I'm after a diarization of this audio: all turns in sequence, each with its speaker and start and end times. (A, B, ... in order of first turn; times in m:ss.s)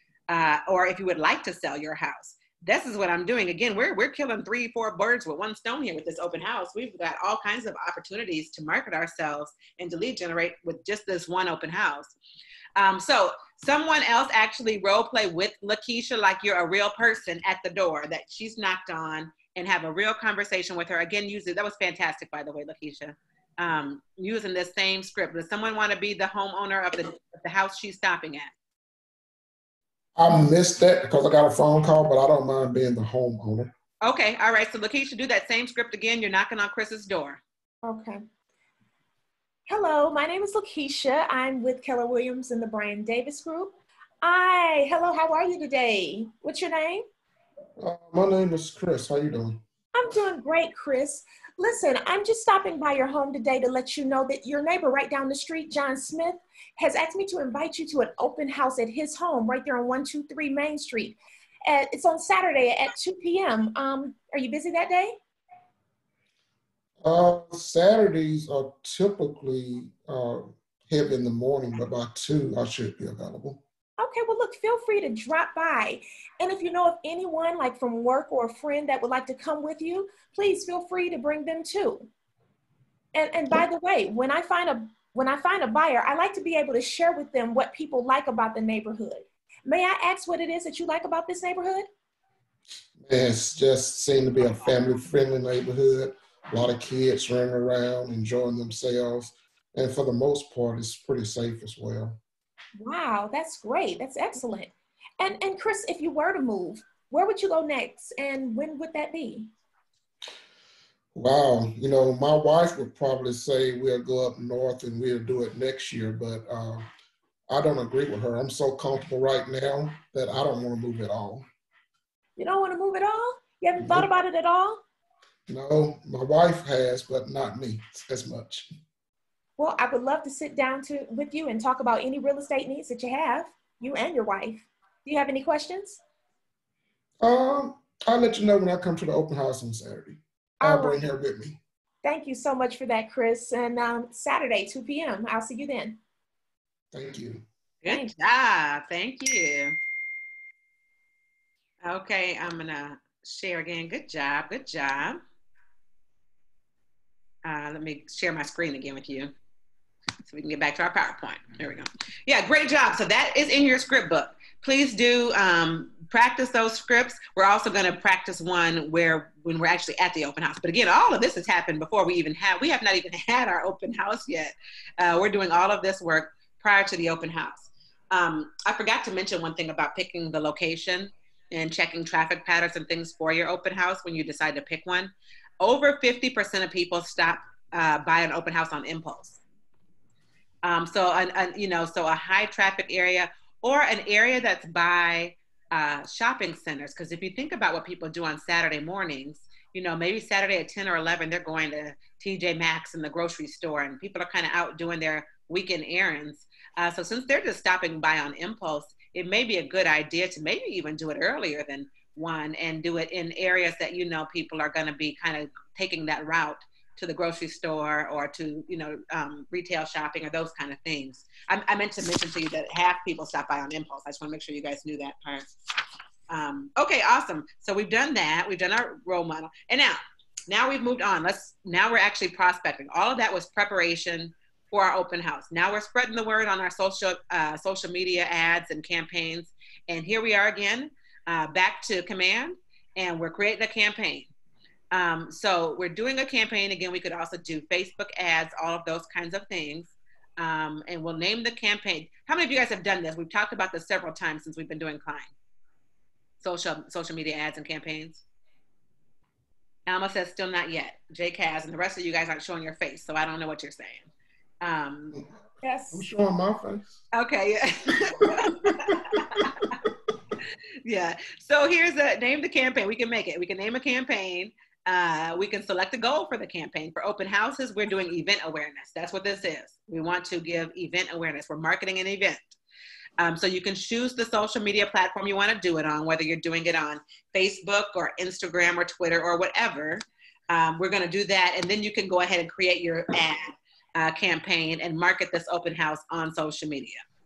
0:00.3-0:12.1 A
0:12.8-0:28.5 A
0:30.2-0:33.7 B
0:34.0-0:37.4 A
0:37.8-0:38.2 C
0:39.7-0:47.0 C
0:47.8-0:49.6 B
0:49.9-1:05.2 C
1:07.0-1:13.6 B
1:14.0-1:22.1 C
1:23.1-1:31.9 C
1:33.0-1:42.2 B
1:42.8-1:49.5 C
1:51.1-1:56.9 B
1:57.5-2:01.4 B
2:02.4-2:04.8 C
2:03.8-2:04.1 B
2:05.5-2:08.7 B
2:09.6-2:16.0 C
2:17.2-2:21.6 B
2:20.6-2:21.0 C
2:22.0-2:26.0 C
2:26.9-2:27.4 B
2:27.8-2:29.8 A
2:31.8-2:35.2 A
2:37.4-2:39.3 A
2:40.2-3:09.4 A
3:10.6-3:45.4 A
3:46.3-4:04.3 A
4:04.9-4:15.3 A
4:16.4-4:18.2 A
4:19.9-4:24.0 A
4:24.6-4:25.1 A
4:25.6-4:26.0 C
4:25.9-4:27.0 B
4:27.1-4:29.0 A
4:28.7-4:29.4 B
4:30.8-4:42.6 A
4:43.2-4:57.0 A